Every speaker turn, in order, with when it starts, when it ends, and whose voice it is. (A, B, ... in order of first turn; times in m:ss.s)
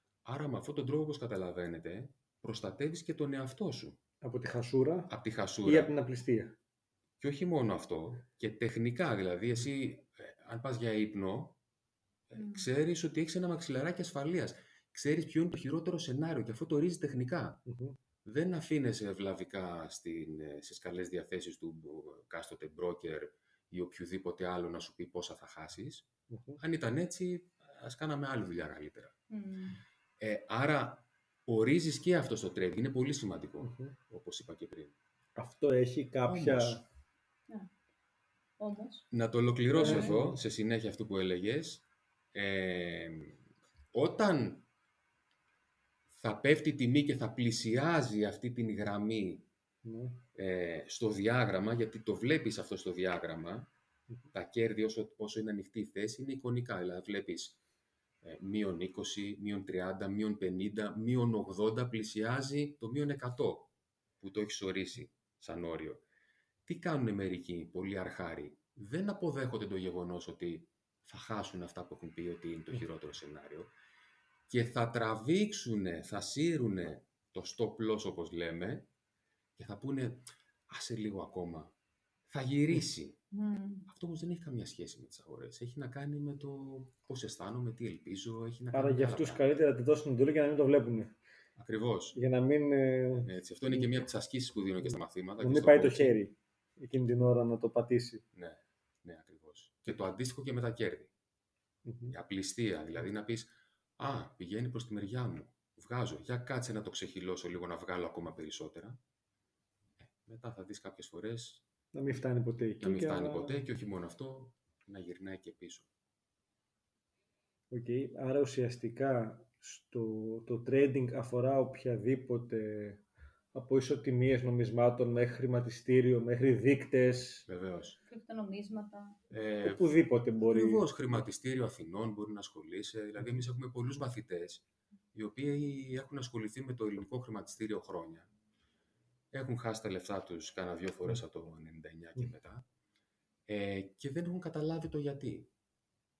0:00.2-0:04.0 A
0:04.2-0:05.1 B
0:05.1-0:05.9 A
0:05.6-0:06.5 B
0:07.2-0:11.6 A
0:12.3-0:17.6 A
0:12.4-0:12.6 C
0:17.7-0:18.0 B
0:18.2-0:26.0 A
0:26.3-0:26.6 B
0:26.6-0:29.1 A
0:29.3-0:29.8 C
0:30.2-0:34.9 A
0:33.6-0:33.9 B
0:35.4-0:36.8 B
0:36.2-0:36.8 A
0:38.6-0:39.0 C
0:39.1-0:43.4 A
0:39.7-0:40.4 B
0:43.9-0:44.6 A
0:46.1-0:49.4 A
0:49.8-0:50.2 B
0:50.3-0:53.7 A
0:54.3-0:57.6 A
0:58.2-1:06.0 A
1:06.6-1:13.7 A
1:14.5-1:18.9 A
1:19.6-1:21.7 A
1:22.3-1:23.2 A
1:23.3-1:23.9 C
1:23.9-1:29.4 A
1:28.7-1:31.2 B
1:31.6-1:32.2 A
1:32.1-1:33.3 B
1:33.2-1:36.2 A
1:35.4-1:38.2 B
1:38.3-1:41.1 A
1:41.8-1:42.1 B
1:42.1-1:49.0 A
1:50.0-1:51.6 A
1:51.9-1:53.6 B
1:52.8-1:55.9 A
1:57.7-2:03.0 B
2:03.5-2:07.5 B
2:07.5-2:08.0 A
2:08.1-2:09.2 C
2:09.3-2:09.8 A
2:09.6-2:10.9 B
2:10.4-2:18.3 A
2:19.3-2:22.6 A
2:23.5-2:25.5 A